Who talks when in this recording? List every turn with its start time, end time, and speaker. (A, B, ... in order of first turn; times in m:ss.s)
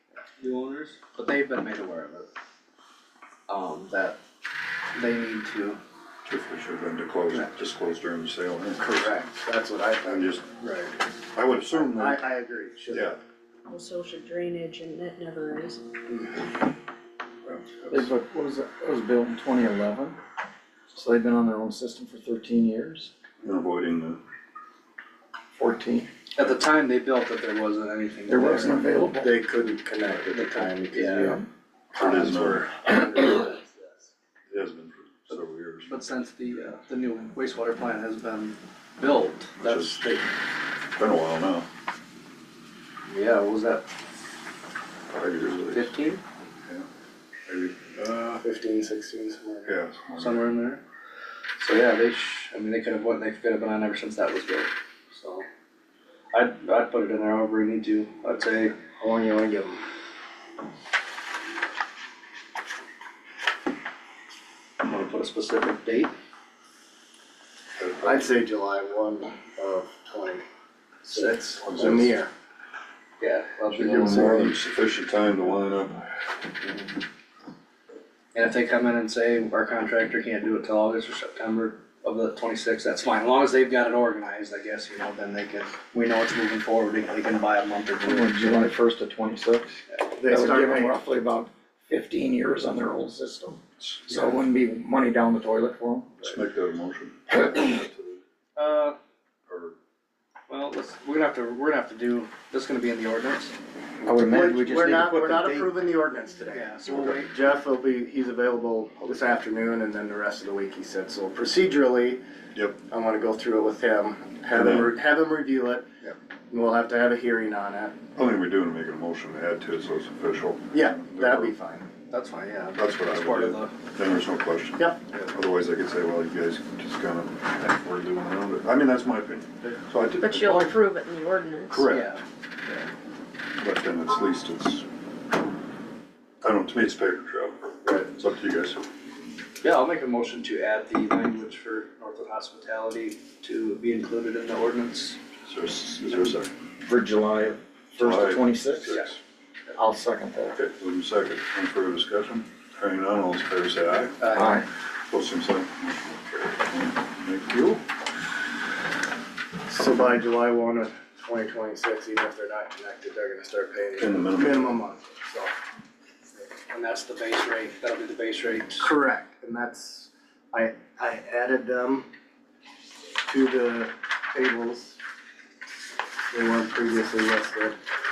0:00.4-0:02.3 A
0:03.5-0:04.2 A
0:04.9-0:05.8 A
0:06.2-0:09.2 B
0:08.8-0:10.4 C
0:10.0-0:10.5 B
0:10.6-0:10.9 A
0:11.3-0:12.2 B
0:11.7-0:13.2 C
0:12.9-0:13.2 B
0:13.7-0:15.8 D
0:17.4-0:18.1 B
0:17.9-0:20.2 E
0:20.9-0:23.1 E
0:23.4-0:24.2 B
0:25.5-0:26.1 E
0:26.3-0:28.8 A
0:28.3-0:29.4 E
0:29.2-0:31.4 C
0:30.2-0:31.4 A
0:31.0-0:31.4 E
0:31.9-0:32.8 B
0:31.9-0:34.1 C
0:34.5-0:36.0 B
0:35.3-0:40.2 A
0:39.6-0:40.2 B
0:40.9-0:41.7 B
0:43.1-0:43.9 A
0:45.1-0:45.9 B
0:45.5-0:46.2 A
0:47.4-0:48.4 B
0:48.4-0:49.8 C
0:49.6-0:50.4 B
0:50.2-0:50.8 A
0:51.6-0:55.4 A
0:56.3-0:58.7 A
0:58.9-0:59.8 C
1:04.8-1:06.1 A
1:07.8-1:08.3 B
1:08.0-1:10.4 C
1:11.0-1:12.3 C
1:11.0-1:11.6 A
1:11.6-1:12.1 B
1:13.2-1:14.4 A
1:13.7-1:14.5 C
1:13.7-1:16.0 B
1:18.3-1:28.6 A
1:28.0-1:36.3 E
1:30.2-1:31.0 C
1:36.2-1:38.2 B
1:38.6-1:39.0 A
1:39.5-1:39.7 B
1:40.5-1:43.5 A
1:44.0-1:45.7 E
1:44.2-1:52.2 C
1:46.5-1:47.3 A
1:52.9-1:55.9 C
1:54.5-1:54.9 B
1:56.5-1:58.0 C
1:58.2-2:01.5 B
2:00.7-2:01.9 C
2:02.1-2:03.7 A
2:02.7-2:10.8 B
2:04.8-2:05.0 C
2:10.2-2:11.9 D
2:11.7-2:12.2 B
2:11.8-2:12.8 A
2:13.6-2:14.8 B
2:16.4-2:18.8 B
2:17.8-2:18.1 C
2:19.6-2:25.2 A
2:25.5-2:26.5 B
2:26.8-2:28.9 E
2:28.0-2:29.2 B
2:29.7-2:30.6 E
2:30.5-2:34.3 B
2:34.3-2:34.7 E
2:35.1-2:37.8 B
2:39.6-2:45.6 C
2:44.0-2:44.8 B
2:46.7-2:48.9 A
2:48.8-2:52.1 C
2:53.2-2:55.0 C
2:56.3-2:57.8 C